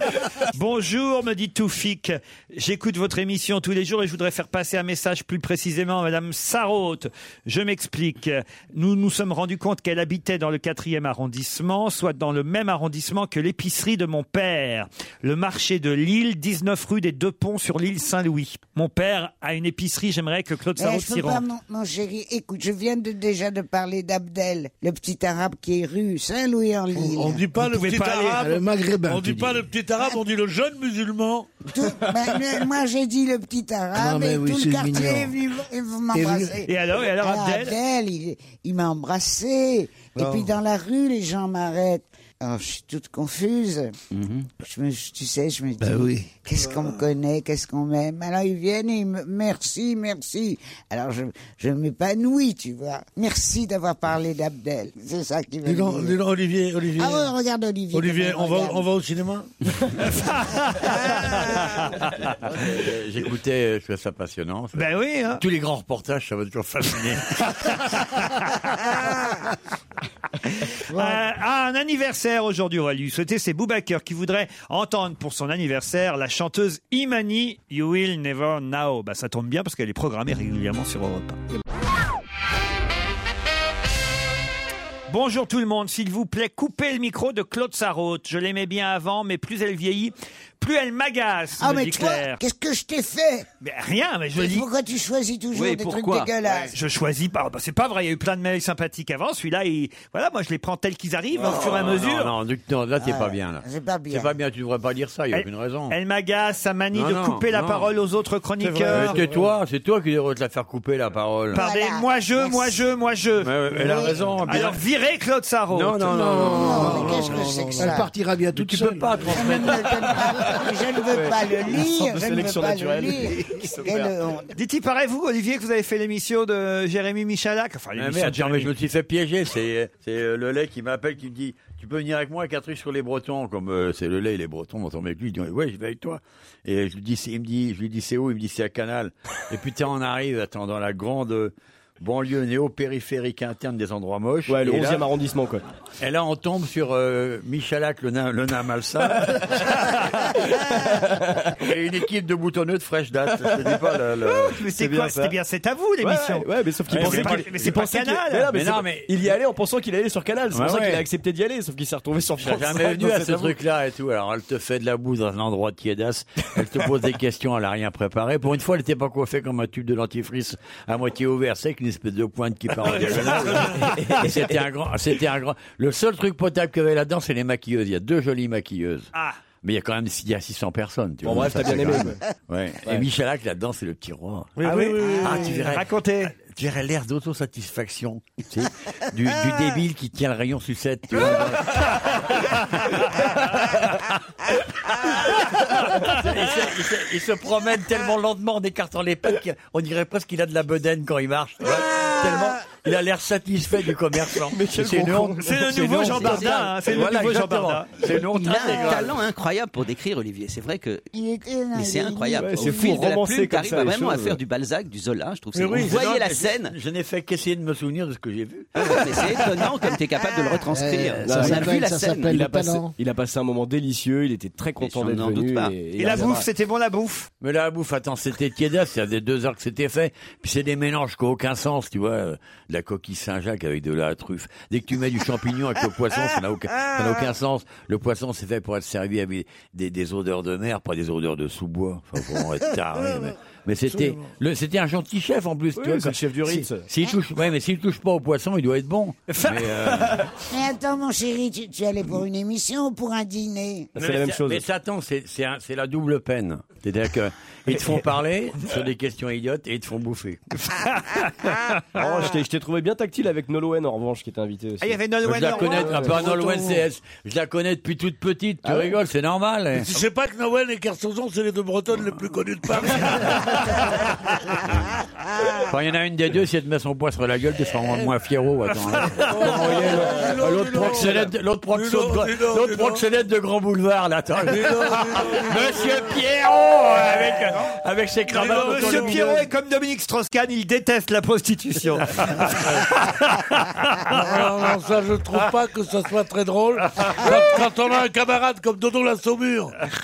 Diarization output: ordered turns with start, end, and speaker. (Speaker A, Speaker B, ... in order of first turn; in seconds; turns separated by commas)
Speaker A: 0.5-21.4, Speaker B: 20.8-27.4, Speaker C: 27.0-27.7, Speaker D: 27.3-31.5, Speaker A: 27.6-28.4, Speaker C: 28.4-29.6, Speaker B: 31.7-43.9, Speaker C: 34.0-35.4, Speaker C: 36.1-36.6, Speaker A: 36.7-37.8, Speaker D: 40.2-40.5, Speaker E: 44.1-44.5, Speaker B: 44.6-56.2, Speaker D: 55.6-57.3, Speaker B: 57.0-58.9, Speaker D: 57.9-59.9, Speaker A: 60.0-62.4, Speaker F: 62.4-67.5, Speaker A: 64.8-65.4, Speaker A: 67.5-68.7, Speaker B: 69.0-69.4, Speaker A: 70.7-81.4, Speaker B: 70.9-71.2, Speaker A: 85.1-92.4, Speaker B: 91.6-93.5, Speaker A: 93.6-94.7, Speaker B: 94.4-96.8, Speaker E: 95.5-96.3, Speaker A: 96.7-102.3, Speaker F: 101.4-106.0, Speaker B: 103.0-104.3, Speaker A: 105.3-109.2, Speaker F: 106.9-107.9, Speaker F: 108.7-111.6, Speaker D: 108.8-109.5, Speaker A: 111.5-113.6, Speaker B: 111.5-112.8, Speaker F: 113.4-114.8, Speaker B: 113.8-114.2, Speaker A: 114.4-116.1, Speaker F: 115.7-117.7, Speaker C: 116.0-119.3, Speaker B: 116.4-118.1, Speaker D: 116.8-117.8, Speaker F: 118.5-120.2, Speaker B: 119.3-124.5, Speaker G: 121.1-124.1, Speaker A: 124.5-128.7, Speaker F: 128.0-145.1, Speaker G: 144.5-145.6, Speaker F: 146.0-149.7, Speaker G: 150.5-151.6, Speaker F: 151.6-154.6, Speaker G: 153.3-153.9, Speaker A: 154.3-158.5, Speaker G: 154.7-155.4, Speaker G: 156.0-163.6, Speaker F: 156.9-157.8, Speaker F: 158.5-159.2, Speaker F: 160.5-161.1, Speaker F: 162.4-179.1, Speaker D: 172.8-173.9, Speaker G: 172.9-174.7, Speaker A: 179.1-179.4, Speaker F: 179.6-184.6, Speaker G: 181.2-182.2, Speaker D: 184.6-185.6, Speaker A: 184.6-186.3, Speaker F: 185.2-185.9, Speaker F: 186.4-192.5, Speaker F: 196.0-209.2, Speaker G: 204.5-206.5, Speaker A: 205.4-207.9, Speaker E: 206.1-206.6, Speaker E: 208.3-211.1, Speaker B: 211.2-212.9, Speaker E: 211.7-216.8, Speaker G: 212.4-214.4, Speaker D: 215.6-216.0, Speaker F: 215.8-219.3, Speaker E: 218.8-222.3, Speaker C: 220.7-222.9, Speaker G: 221.2-221.7, Speaker G: 222.3-226.5, Speaker E: 224.8-225.8, Speaker A: 226.0-227.3, Speaker F: 227.4-250.3, Speaker G: 245.8-246.9, Speaker A: 249.3-249.7, Speaker B: 250.5-253.9, Speaker G: 253.9-254.6, Speaker F: 254.0-260.5, Speaker G: 257.7-258.0, Speaker A: 260.7-262.0, Speaker G: 261.9-266.4, Speaker A: 264.8-266.5, Speaker F: 265.2-269.9, Speaker G: 268.6-268.9, Speaker D: 269.9-274.1, Speaker F: 275.6-289.4, Speaker D: 279.3-283.0, Speaker G: 279.3-281.2, Speaker D: 284.5-285.9, Speaker A: 288.3-294.4, Speaker D: 288.3-289.2, Speaker D: 294.1-299.8